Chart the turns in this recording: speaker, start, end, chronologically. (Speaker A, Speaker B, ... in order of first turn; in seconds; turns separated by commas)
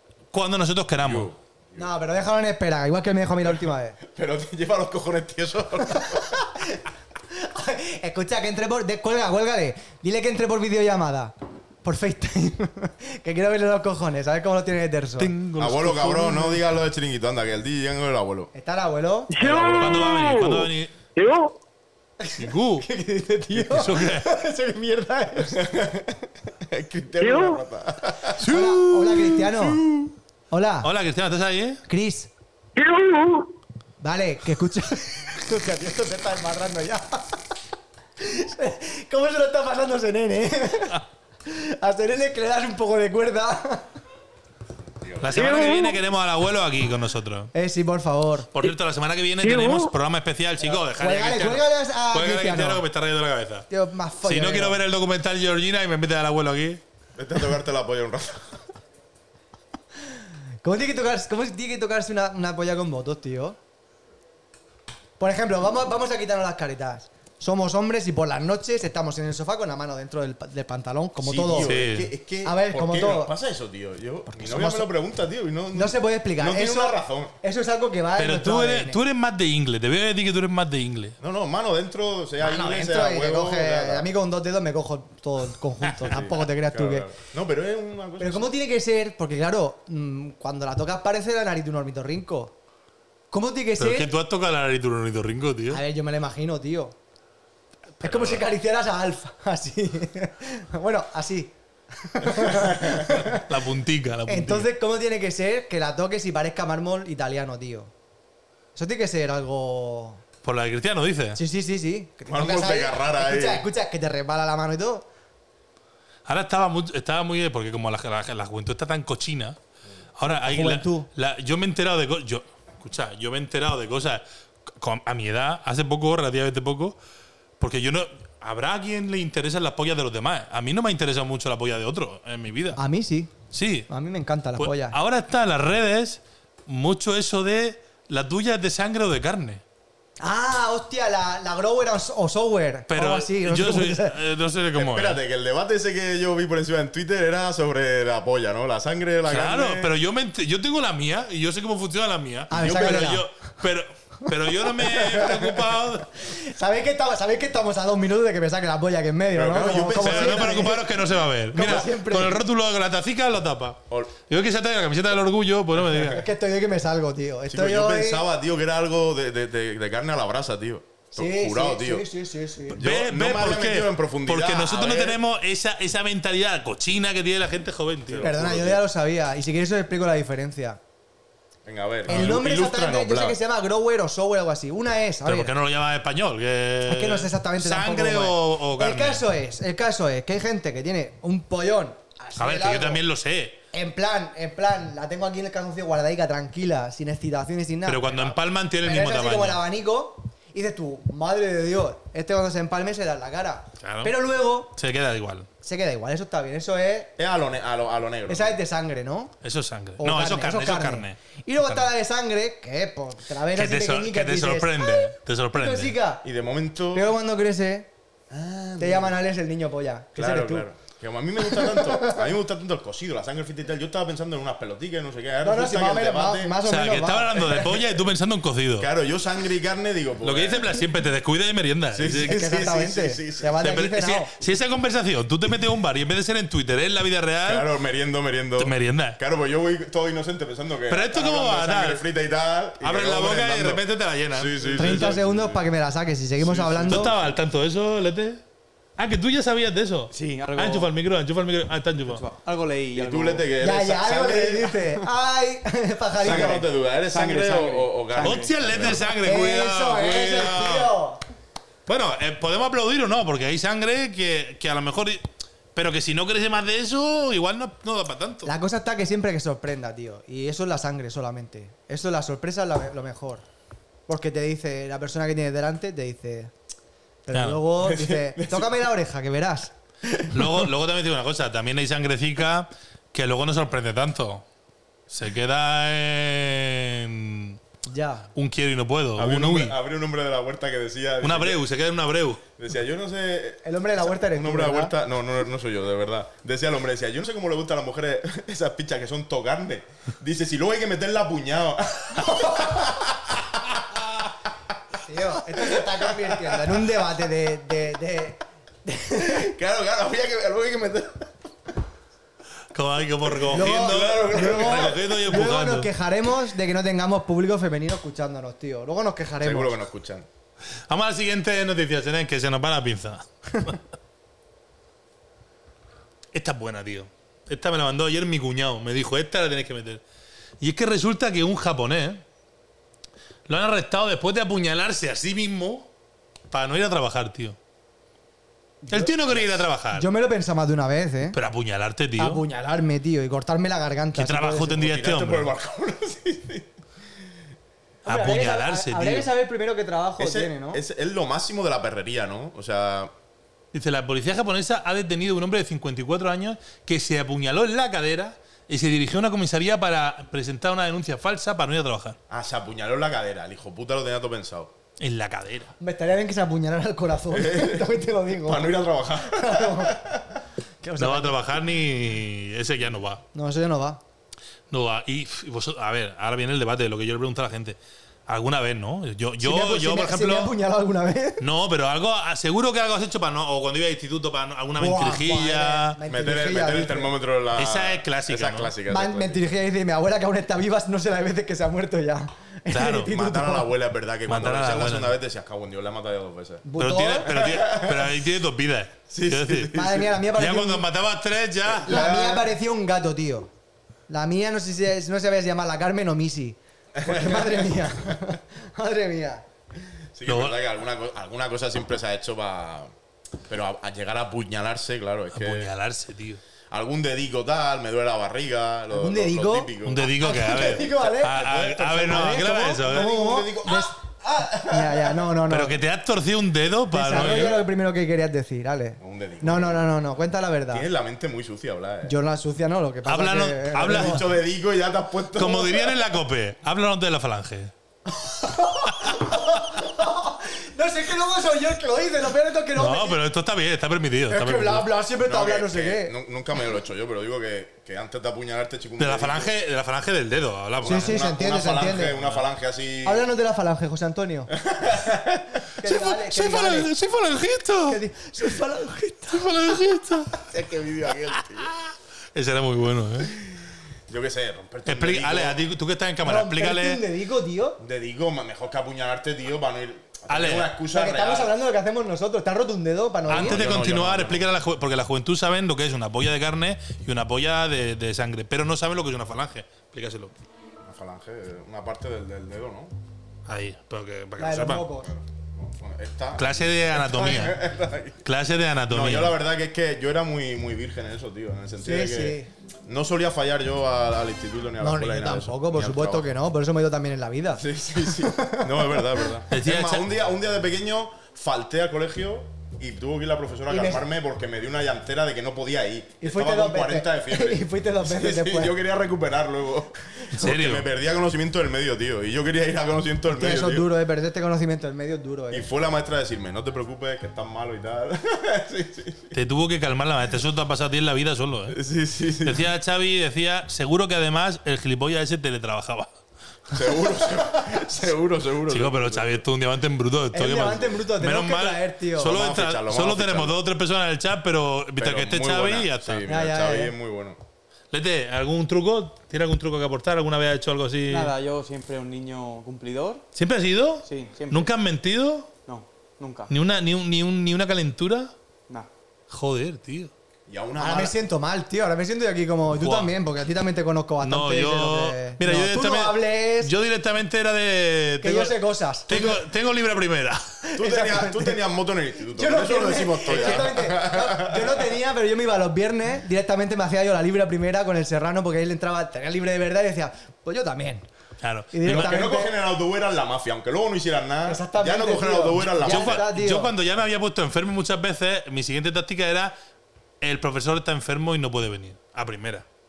Speaker A: 0.3-1.3, Speaker B: 1.0-1.9, Speaker C: 1.8-4.0, Speaker B: 4.0-6.3, Speaker C: 6.1-6.8, Speaker C: 7.3-15.3, Speaker A: 15.2-16.6, Speaker B: 15.6-18.5, Speaker C: 18.5-19.3, Speaker D: 19.3-21.5, Speaker B: 19.4-20.3, Speaker A: 19.8-20.9, Speaker C: 22.2-25.7, Speaker A: 22.4-22.9, Speaker A: 23.7-24.3, Speaker B: 25.5-28.4, Speaker D: 27.2-27.6, Speaker C: 28.3-29.8, Speaker A: 28.4-30.0, Speaker C: 30.5-30.9, Speaker A: 30.8-31.8, Speaker C: 31.9-32.3, Speaker D: 32.8-33.5, Speaker C: 34.0-37.4, Speaker C: 38.2-43.9, Speaker B: 45.0-45.6, Speaker A: 45.2-47.5, Speaker D: 45.3-46.0, Speaker C: 47.5-48.5, Speaker A: 48.5-53.7, Speaker D: 49.4-49.9, Speaker C: 50.6-52.8, Speaker C: 53.7-54.8, Speaker A: 54.2-56.8, Speaker B: 57.2-58.6, Speaker C: 60.6-63.6, Speaker C: 65.2-71.8, Speaker B: 71.2-77.3, Speaker A: 71.6-72.1, Speaker C: 72.5-73.3, Speaker C: 74.3-74.9, Speaker C: 75.7-79.0, Speaker A: 78.2-81.2, Speaker B: 81.2-84.1, Speaker C: 82.4-87.1, Speaker B: 86.0-88.5, Speaker C: 88.2-92.5, Speaker C: 93.3-94.1, Speaker A: 93.8-95.8, Speaker C: 95.7-97.0, Speaker A: 98.0-98.5, Speaker C: 98.0-103.5, Speaker B: 102.3-103.0, Speaker A: 103.2-104.7, Speaker C: 104.3-107.9, Speaker C: 108.8-110.2, Speaker A: 110.4-111.4, Speaker C: 111.4-115.0, Speaker B: 112.3-113.7, Speaker A: 116.3-119.6, Speaker A: 120.2-124.2, Speaker C: 120.3-121.1, Speaker A: 124.7-127.0, Speaker A: 127.6-132.8, Speaker C: 132.8-133.3, Speaker A: 133.5-133.9, Speaker C: 133.9-135.0, Speaker A: 134.6-139.6, Speaker C: 140.2-144.2, Speaker A: 142.9-145.2, Speaker B: 144.8-149.9, Speaker A: 149.3-156.1, Speaker C: 152.5-153.2, Speaker C: 154.8-155.6, Speaker C: 156.2-160.9, Speaker B: 159.3-160.8, Speaker A: 160.0-166.2, Speaker C: 161.5-162.4, Speaker B: 163.9-164.2, Speaker C: 166.0-168.3, Speaker B: 167.5-172.1, Speaker C: 171.2-172.8, Speaker A: 172.7-178.3, Speaker B: 172.8-175.2, Speaker B: 178.1-178.8, Speaker C: 178.2-180.8, Speaker B: 181.7-183.4, Speaker C: 182.1-185.5, Speaker A: 185.2-189.2, Speaker C: 186.9-193.0, Speaker A: 192.4-193.6, Speaker C: 193.7-204.7, Speaker A: 197.9-199.6, Speaker A: 203.8-204.1, Speaker A: 204.8-205.5, Speaker C: 205.6-207.1, Speaker B: 207.2-208.6, Speaker C: 208.3-209.3, Speaker A: 209.4-211.9, Speaker C: 210.0-216.2, Speaker A: 213.5-216.0, Speaker B: 216.2-217.1, Speaker C: 216.9-217.9, Speaker B: 218.3-219.2, Speaker C: 218.8-220.7, Speaker B: 220.2-226.6, Speaker C: 221.5-222.2, Speaker C: 225.4-227.8, Speaker A: 226.6-228.9, Speaker B: 228.8-230.8, Speaker A: 230.2-232.6, Speaker B: 231.9-233.7, Speaker C: 232.2-234.3, Speaker A: 233.6-237.7, Speaker B: 237.4-243.8, Speaker A: 238.6-239.2, Speaker A: 240.9-242.0, Speaker A: 242.8-245.1, Speaker B: 244.3-245.7, Speaker C: 244.8-247.1, Speaker B: 246.4-247.4, Speaker A: 246.8-248.4, Speaker A: 249.0-252.2, Speaker E: 250.1-250.9, Speaker E: 252.1-253.5, Speaker B: 252.9-255.0, Speaker C: 253.6-256.6, Speaker B: 256.2-259.1, Speaker E: 256.2-259.0, Speaker A: 258.2-260.9, Speaker C: 259.2-261.2, Speaker A: 261.9-268.5, Speaker C: 268.4-273.4, Speaker C: 274.1-276.5, Speaker C: 277.3-279.7, Speaker A: 277.3-277.6, Speaker B: 277.8-278.8, Speaker B: 280.1-280.5, Speaker A: 280.3-284.4, Speaker A: 285.1-287.6, Speaker C: 287.9-288.3, Speaker A: 288.4-289.8, Speaker B: 289.2-291.6, Speaker A: 291.2-292.4, Speaker B: 292.6-304.1, Speaker C: 293.6-294.9, Speaker C: 302.3-302.9, Speaker C: 305.0-309.5, Speaker B: 305.5-307.1, Speaker B: 309.2-311.3, Speaker A: 312.7-315.9, Speaker B: 313.3-315.0, Speaker C: 313.5-319.8, Speaker B: 319.4-320.3, Speaker A: 320.9-323.8, Speaker A: 326.3-330.0, Speaker A: 330.6-332.2, Speaker A: 333.5-335.9, Speaker A: 336.5-337.6, Speaker C: 338.8-341.4, Speaker A: 338.9-340.1, Speaker A: 341.3-342.4, Speaker C: 342.2-344.8, Speaker A: 344.1-345.5, Speaker B: 344.8-346.7, Speaker C: 348.1-350.8, Speaker A: 348.1-349.3, Speaker B: 350.2-353.1, Speaker A: 353.7-362.2, Speaker B: 362.3-364.7, Speaker A: 365.0-365.7, Speaker C: 365.8-368.7, Speaker B: 367.3-370.4, Speaker C: 369.2-370.0, Speaker C: 370.8-371.5, Speaker A: 371.0-373.2, Speaker C: 373.3-374.0, Speaker A: 374.7-380.5, Speaker C: 379.4-381.4, Speaker A: 381.4-386.0, Speaker C: 384.8-387.1, Speaker B: 386.1-389.4, Speaker A: 387.6-388.7, Speaker C: 388.9-393.7, Speaker A: 392.7-393.1, Speaker B: 393.1-396.6, Speaker A: 394.3-395.2, Speaker C: 396.6-397.3, Speaker A: 396.8-399.8, Speaker B: 397.2-398.2, Speaker B: 399.1-400.2, Speaker C: 399.7-400.9, Speaker A: 400.4-402.0, Speaker B: 401.7-402.5, Speaker C: 401.9-403.5, Speaker C: 404.1-409.4, Speaker B: 407.0-408.3, Speaker B: 410.1-412.9, Speaker A: 410.3-410.6, Speaker B: 413.5-415.7, Speaker A: 415.3-416.4, Speaker B: 416.7-425.3, Speaker C: 418.9-424.0, Speaker A: 419.8-423.1, Speaker C: 424.6-425.8, Speaker A: 425.5-427.6, Speaker C: 426.9-430.9, Speaker B: 427.2-427.6, Speaker B: 429.0-429.9, Speaker B: 430.7-432.1, Speaker C: 432.1-434.3, Speaker A: 433.1-434.3, Speaker B: 433.8-436.0, Speaker A: 435.3-437.7, Speaker C: 438.3-443.2, Speaker A: 442.8-444.9, Speaker C: 444.3-446.1, Speaker B: 445.2-449.5, Speaker A: 449.0-451.2, Speaker B: 450.8-453.3, Speaker C: 450.9-452.2, Speaker C: 453.1-454.5, Speaker B: 454.6-455.6, Speaker C: 455.8-456.9, Speaker A: 455.8-458.0, Speaker C: 457.9-459.6, Speaker A: 459.3-460.5, Speaker B: 460.4-461.7, Speaker A: 461.1-463.4, Speaker B: 463.2-465.6, Speaker A: 464.9-467.0, Speaker C: 466.2-467.8, Speaker B: 467.8-471.5, Speaker A: 470.3-470.7, Speaker C: 470.9-473.7, Speaker B: 473.3-474.5, Speaker A: 473.3-480.3, Speaker B: 480.9-482.9, Speaker A: 483.5-484.9, Speaker C: 484.4-485.1, Speaker B: 485.1-488.2, Speaker A: 486.4-487.6, Speaker A: 488.2-489.4, Speaker B: 488.9-496.3, Speaker C: 491.8-492.5, Speaker C: 494.8-499.1, Speaker B: 497.6-513.9, Speaker A: 499.5-500.1, Speaker C: 503.7-504.1, Speaker C: 506.2-508.8, Speaker A: 510.3-510.9, Speaker C: 513.3-515.7, Speaker B: 515.5-519.3, Speaker A: 519.3-521.8, Speaker B: 521.7-522.7, Speaker A: 522.4-526.1, Speaker B: 526.7-529.4, Speaker A: 528.7-536.3, Speaker C: 530.3-532.4, Speaker B: 532.2-533.6, Speaker B: 535.0-537.4, Speaker C: 536.3-536.9, Speaker A: 537.9-541.3, Speaker E: 541.1-543.2, Speaker A: 543.4-545.5, Speaker E: 544.0-544.7, Speaker E: 545.7-546.5, Speaker A: 546.5-548.3, Speaker A: 549.3-550.1, Speaker B: 550.5-551.2, Speaker C: 550.8-556.7, Speaker A: 552.7-553.1, Speaker A: 554.2-558.6, Speaker C: 558.2-559.4, Speaker A: 559.1-560.4, Speaker C: 560.7-561.6, Speaker B: 560.8-564.9, Speaker C: 562.3-571.1, Speaker A: 563.3-563.7, Speaker A: 571.4-572.1, Speaker C: 571.7-572.5, Speaker B: 571.9-576.2, Speaker C: 574.5-576.7, Speaker A: 575.8-579.5, Speaker A: 580.2-582.6